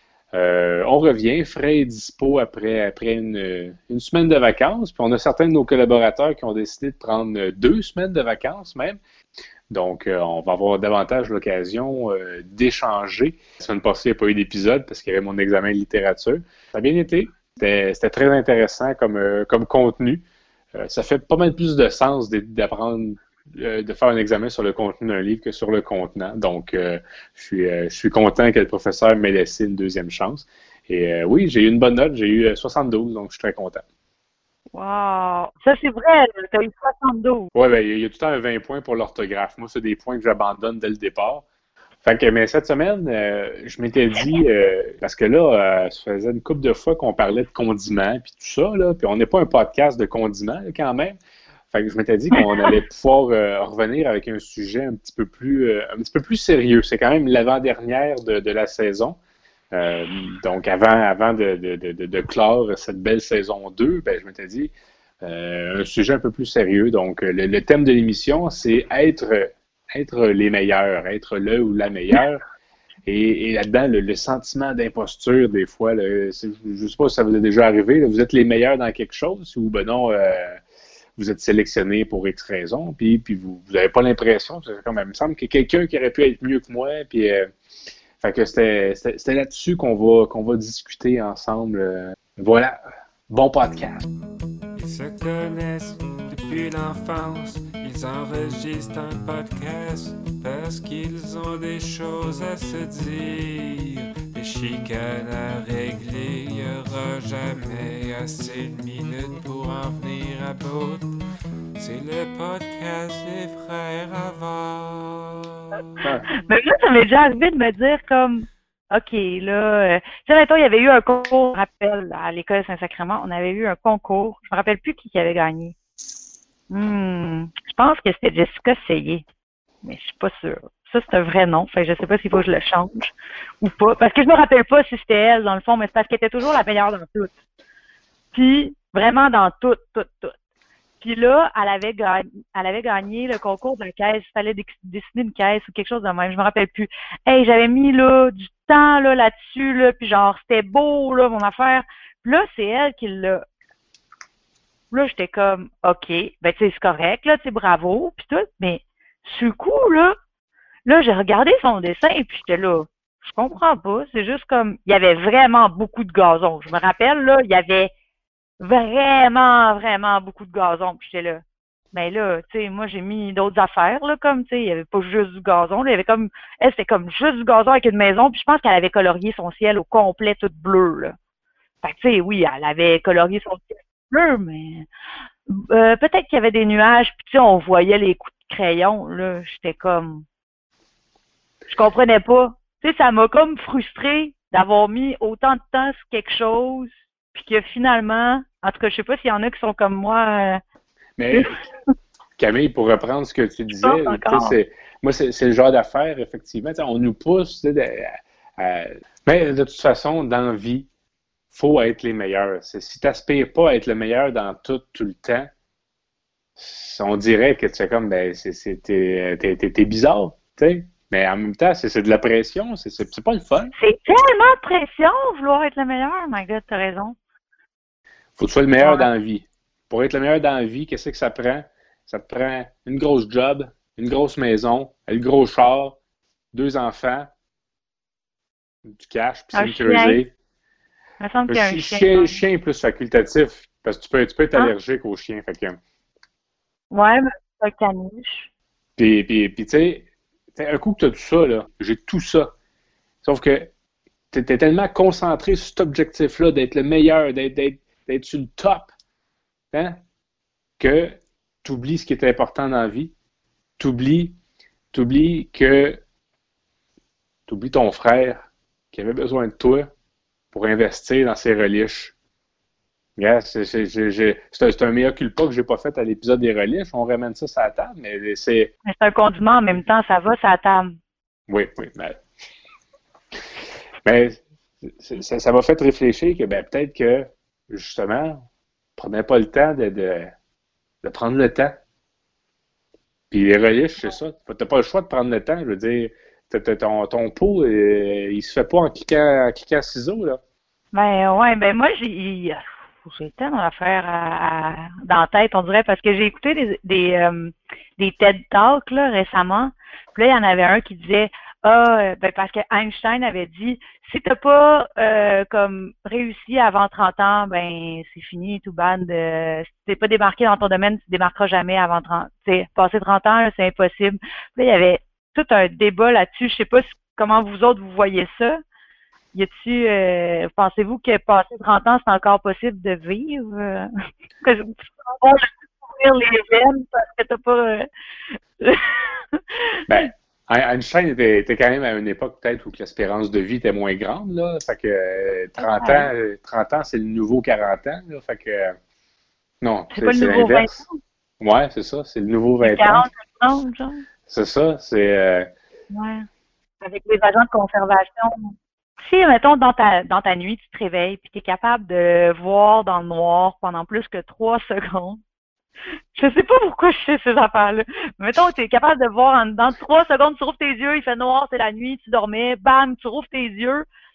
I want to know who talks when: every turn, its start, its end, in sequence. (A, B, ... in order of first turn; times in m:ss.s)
0:00.3-0:09.0 A
0:09.7-0:20.2 A
0:20.8-0:33.8 A
0:34.7-0:37.5 B
0:37.5-0:41.4 A
0:42.0-0:51.2 A
0:51.7-0:59.2 A
0:59.7-1:04.7 A
1:05.2-1:12.4 A
1:13.1-1:20.6 A
1:21.2-1:27.5 A
1:28.2-1:34.0 A
1:34.8-1:43.7 C
1:44.3-1:51.0 C
1:51.8-1:55.2 C
1:56.4-2:05.7 B
2:06.7-2:09.2 B
2:09.8-2:17.3 B
2:18.3-2:20.3 B
2:21.0-2:33.4 B
2:34.9-2:40.1 B
2:40.9-2:47.9 B
2:48.6-2:51.4 B
2:51.9-3:01.2 B
3:01.8-3:04.9 B
3:05.5-3:10.2 B
3:11.7-3:20.6 B
3:21.2-3:21.6 A
3:22.4-3:30.9 A
3:23.8-3:24.6 B
3:31.5-3:35.5 A
3:36.6-3:43.7 A
3:43.8-3:47.2 B
3:48.4-3:56.0 A
3:48.8-3:49.1 B
3:56.5-3:57.3 A
3:58.9-4:00.3 A
3:59.5-4:00.2 B
4:01.2-4:02.4 B
4:01.5-4:05.8 A
4:06.9-4:08.5 B
4:09.0-4:12.5 A
4:13.2-4:13.7 A
4:14.3-4:18.9 A
4:19.7-4:20.0 A
4:20.8-4:23.1 A
4:23.8-4:24.4 A
4:24.9-4:26.0 A
4:27.5-4:29.9 A
4:30.5-4:32.2 A
4:33.2-4:38.7 A
4:38.9-4:40.9 B
4:41.5-4:42.2 A
4:44.1-4:48.4 A
4:49.0-4:50.3 A
4:51.0-4:51.8 A
4:53.3-5:00.4 A
5:00.9-5:28.6 B
5:29.3-5:33.9 B
5:34.4-5:37.9 B
5:38.6-5:40.1 B
5:39.9-5:48.8 A
5:45.6-5:46.1 B
5:49.6-5:50.8 A
5:49.9-5:50.9 B
5:51.4-5:53.1 A
5:52.6-5:54.0 B
5:54.3-5:55.5 A
5:55.9-5:56.3 B
5:56.8-5:58.5 B
5:59.0-6:05.2 B
6:06.2-6:13.9 B